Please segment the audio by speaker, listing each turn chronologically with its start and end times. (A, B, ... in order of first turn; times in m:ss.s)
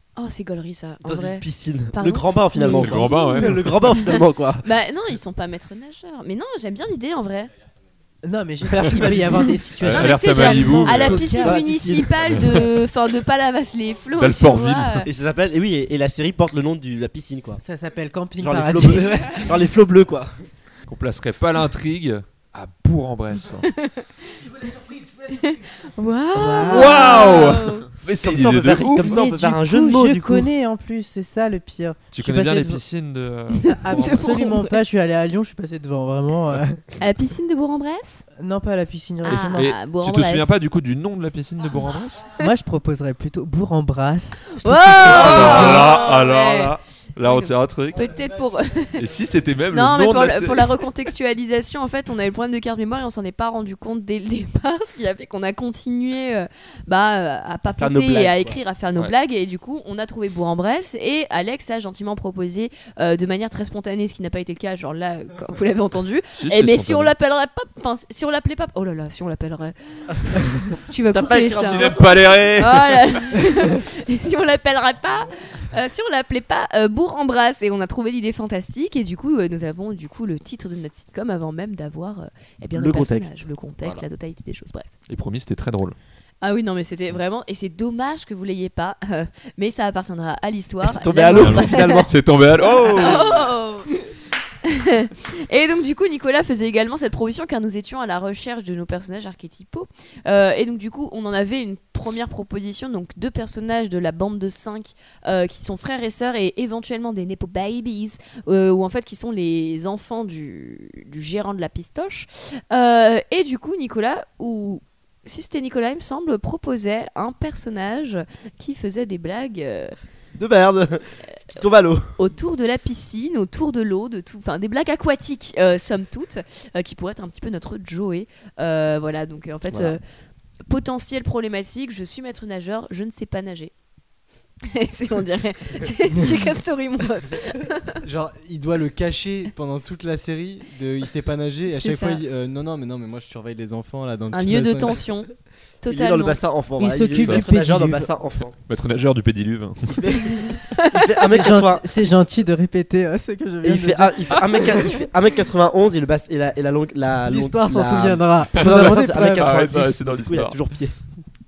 0:00.2-0:07.5 A
0:01.0-0:04.7 B
0:02.7-0:03.7 C
0:08.2-0:11.6 D
0:08.6-0:09.7 B
0:09.8-0:11.3 C
0:09.9-0:15.1 A
0:11.1-0:12.4 B
0:14.2-0:15.1 C
0:15.0-0:17.6 B
0:17.6-0:19.2 D
0:18.4-0:20.3 B
0:20.9-0:23.7 C
0:25.3-0:27.9 A
0:26.4-0:27.1 D
0:26.6-0:29.1 C
0:28.2-0:30.5 B
0:29.0-0:32.8 D
0:32.1-0:34.2 C
0:33.6-0:34.8 A
0:33.8-0:36.8 D
0:37.0-0:38.2 A
0:38.4-0:39.7 D
0:39.2-0:40.5 A
0:39.3-0:42.3 C
0:42.4-0:45.8 D
0:44.6-0:49.0 A
0:45.0-0:48.1 C
0:49.0-0:50.9 C
0:49.7-1:12.0 A
0:57.7-0:58.6 B
1:06.4-1:07.1 C
1:11.1-1:12.6 B
1:11.6-1:13.4 C
1:12.6-1:24.9 A
1:22.7-1:24.0 B
1:25.1-1:26.0 C
1:26.4-1:32.1 A
1:30.8-1:32.1 B
1:31.3-1:33.4 C
1:32.8-1:33.3 B
1:33.0-1:33.9 A
1:34.6-2:00.0 A
2:00.4-2:02.2 B
2:02.2-2:10.0 A
2:09.7-2:10.0 B
2:10.6-2:13.7 A
2:14.6-2:18.0 A
2:18.0-2:25.1 E
2:21.7-2:22.2 A
2:24.3-2:26.4 A
2:25.9-2:28.6 B
2:26.8-2:28.1 D
2:27.2-2:27.4 C
2:28.7-2:30.0 C
2:29.9-2:32.0 B
2:31.3-2:34.4 D
2:33.6-2:41.0 B
2:37.3-2:39.5 D
2:38.6-2:40.6 C